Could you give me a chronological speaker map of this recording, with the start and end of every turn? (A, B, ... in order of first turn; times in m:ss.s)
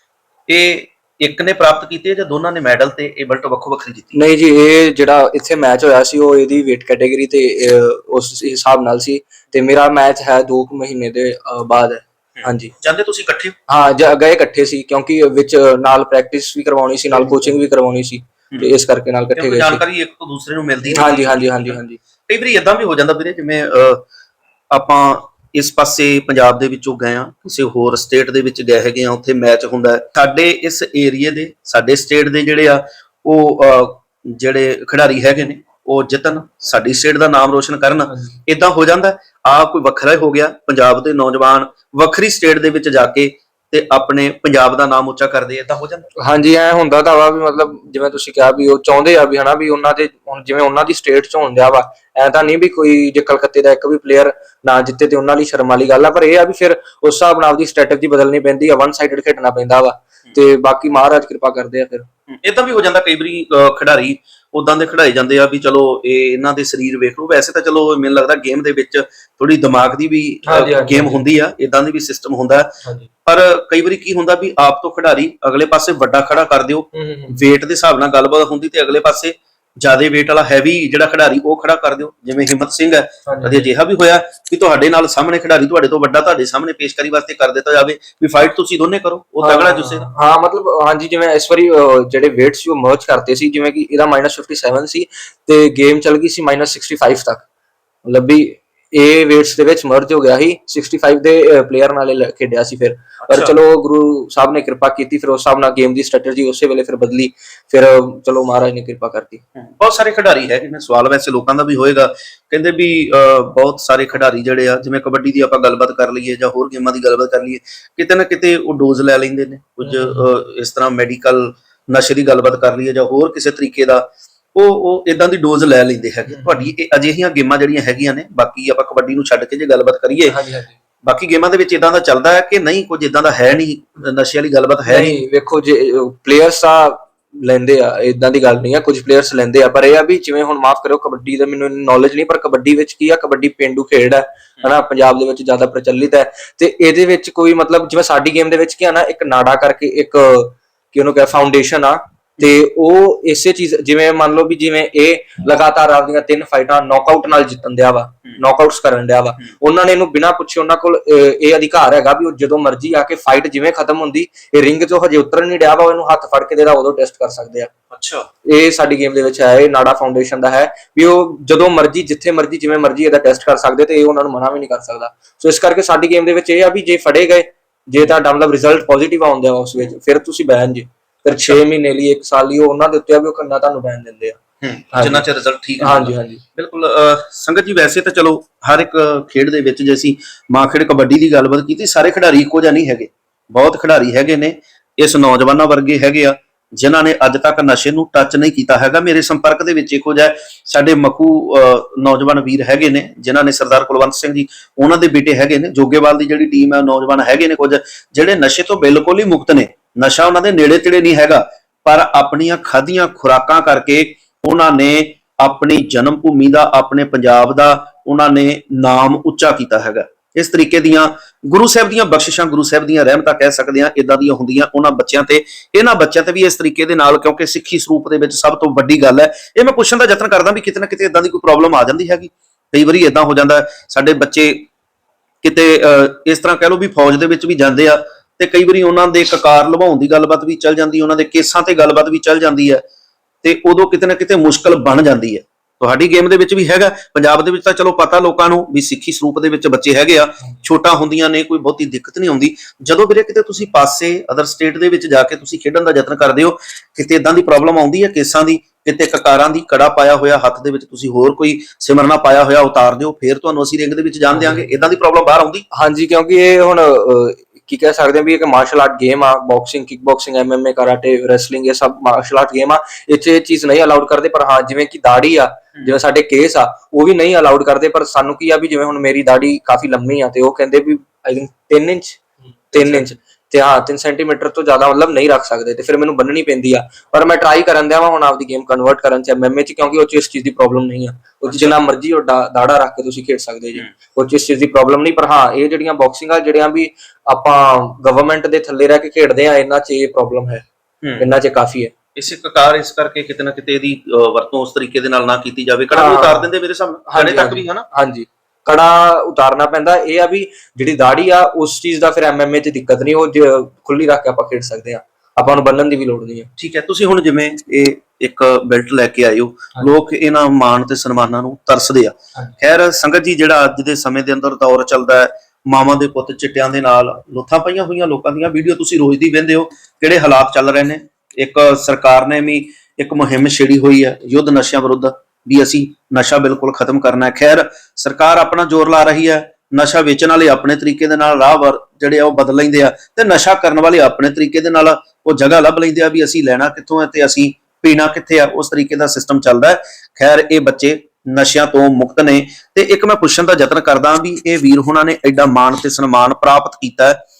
0:00.5-0:04.2 A
0:04.1-0:12.7 B
0:12.4-0:13.5 A
0:13.7-0:19.8 B
0:19.3-0:24.0 A
0:20.9-0:22.0 B
0:24.7-0:46.1 A
0:38.1-0:38.4 B
0:46.2-1:02.1 B
1:02.3-1:12.7 A
1:10.5-1:11.2 B
1:13.2-1:30.1 A
1:16.9-1:17.4 B
1:23.3-1:23.7 B
1:29.4-1:37.4 B
1:38.0-1:49.4 B
1:43.2-1:43.5 A
1:49.6-2:10.4 A
1:59.8-2:00.3 B
2:06.3-2:06.7 B
2:10.3-2:10.7 B
2:11.0-2:15.1 A
2:14.9-2:47.7 B
2:47.9-2:48.3 A
2:48.4-3:04.4 B
3:01.3-3:01.6 A
3:04.6-3:54.7 A
3:04.9-3:05.2 B
3:05.8-3:06.4 B
3:55.4-4:02.8 A
4:03.4-4:25.6 A
4:24.3-4:24.7 B
4:25.7-5:00.6 B
4:42.7-4:43.0 A
4:51.5-4:51.8 A
5:01.2-5:01.9 B
5:02.2-5:07.8 A
5:05.9-5:06.5 B
5:07.1-5:16.5 B
5:16.6-5:57.2 A